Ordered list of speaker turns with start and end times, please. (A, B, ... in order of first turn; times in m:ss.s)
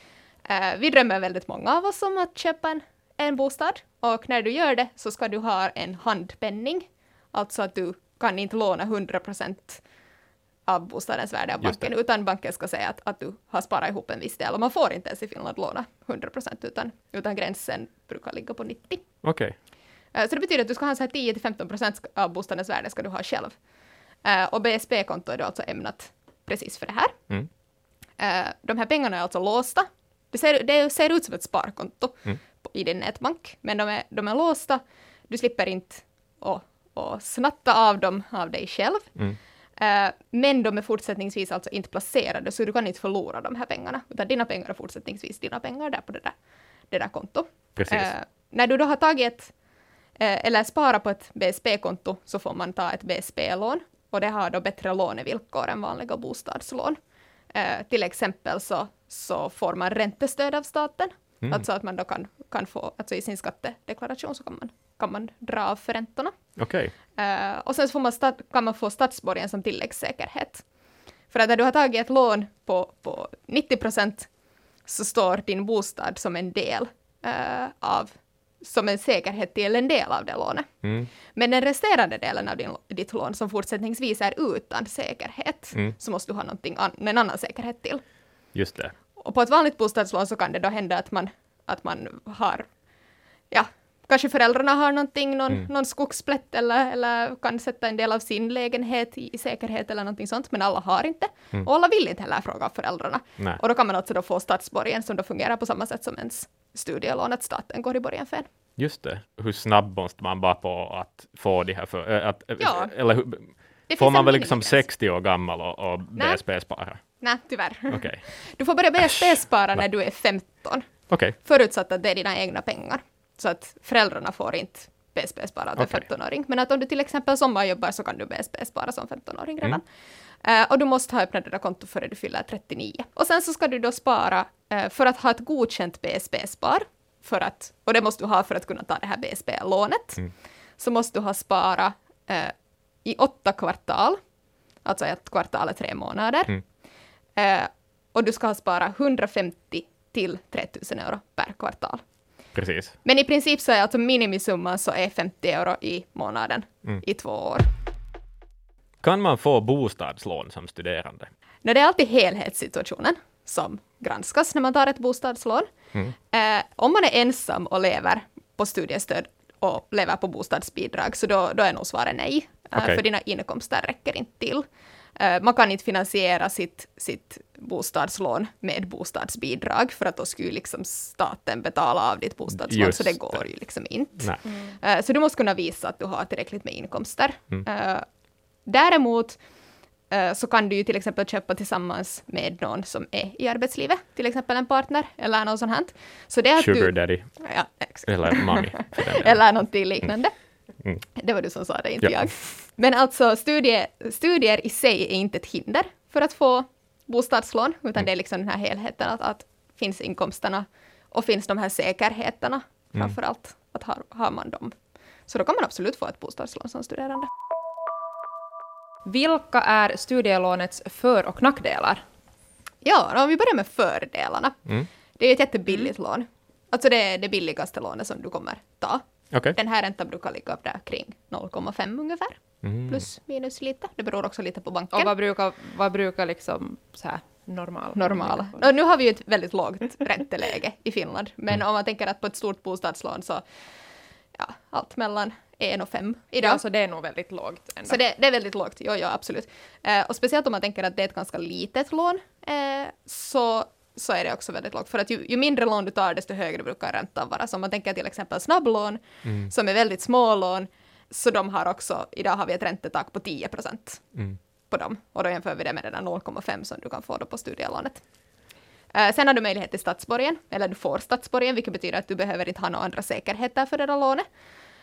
0:00.5-0:09.8 A
0:10.7-0:19.0 A
0:11.6-0:11.9 B
0:19.2-0:19.6 B
0:20.1-0:23.6 A
0:24.2-0:27.2 A
0:28.2-0:39.2 A
0:39.8-0:46.4 A
0:46.9-0:49.5 A
0:47.8-0:48.1 B
0:50.2-0:57.0 A
0:57.5-1:06.4 A
1:06.6-1:06.9 B
1:07.2-1:10.6 A
1:11.3-1:14.3 A
1:14.9-1:20.7 A
1:20.8-1:21.1 B
1:21.3-1:28.0 A
1:28.5-1:28.9 B
1:29.2-1:32.7 A
1:33.5-1:48.5 A
1:48.8-1:57.0 B
1:52.6-1:52.9 A
1:53.9-1:54.9 A
1:56.2-1:56.4 A
1:57.1-2:09.8 A
1:57.9-1:58.2 B
2:01.1-2:01.4 B
2:05.8-2:06.0 B
2:10.4-2:22.5 A
2:23.0-2:24.2 A
2:24.8-2:26.6 A
2:27.4-2:32.0 A
2:32.6-2:33.0 B
2:33.0-2:37.7 A
2:39.0-2:41.3 B
2:41.6-2:45.7 A
2:46.3-2:54.7 A
2:55.2-3:08.0 A
3:02.6-3:03.4 B
3:08.7-3:09.4 A
3:10.1-3:20.3 A
3:16.6-3:17.3 B
3:18.1-3:19.4 B
3:21.2-3:34.7 A
3:35.3-3:37.3 A
3:39.0-3:42.0 C
3:42.8-3:44.6 A
3:45.2-3:55.1 A
3:49.3-3:49.6 B
3:52.6-3:53.0 B
3:54.9-3:58.6 C
3:58.0-4:03.4 A
4:04.4-4:06.6 A
4:06.4-4:08.0 C
4:07.9-4:24.1 A
4:19.2-4:19.5 B
4:24.7-4:28.0 A
4:28.9-4:34.2 A